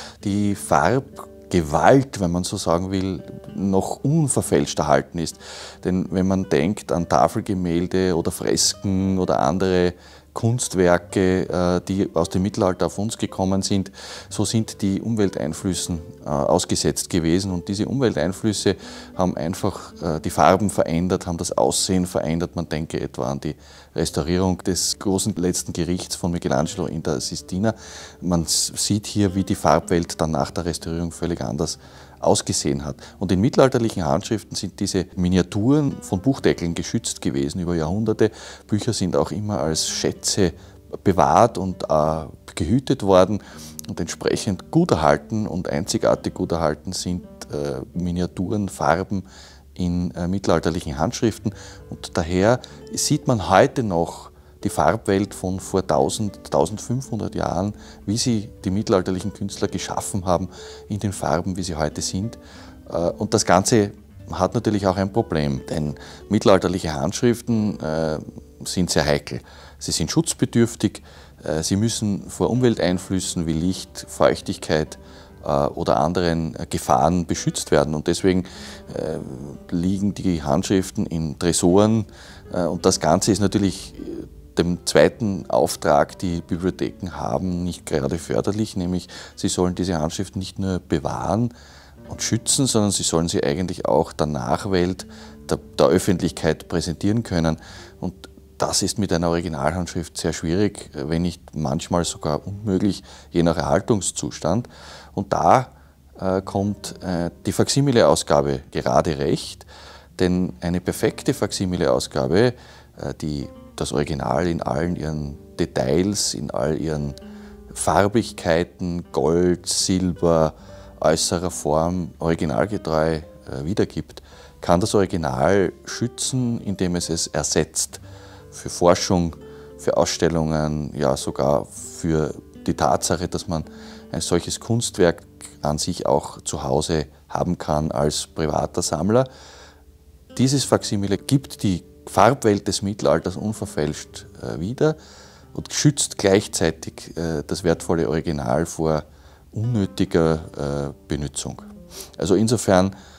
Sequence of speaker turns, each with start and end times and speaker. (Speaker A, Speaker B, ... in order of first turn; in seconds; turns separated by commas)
Speaker A: 0.2-91.5, Speaker A: 92.1-109.7, Speaker A: 110.2-117.2, Speaker A: 117.7-139.3, Speaker A: 140.3-145.0, Speaker A: 145.5-152.9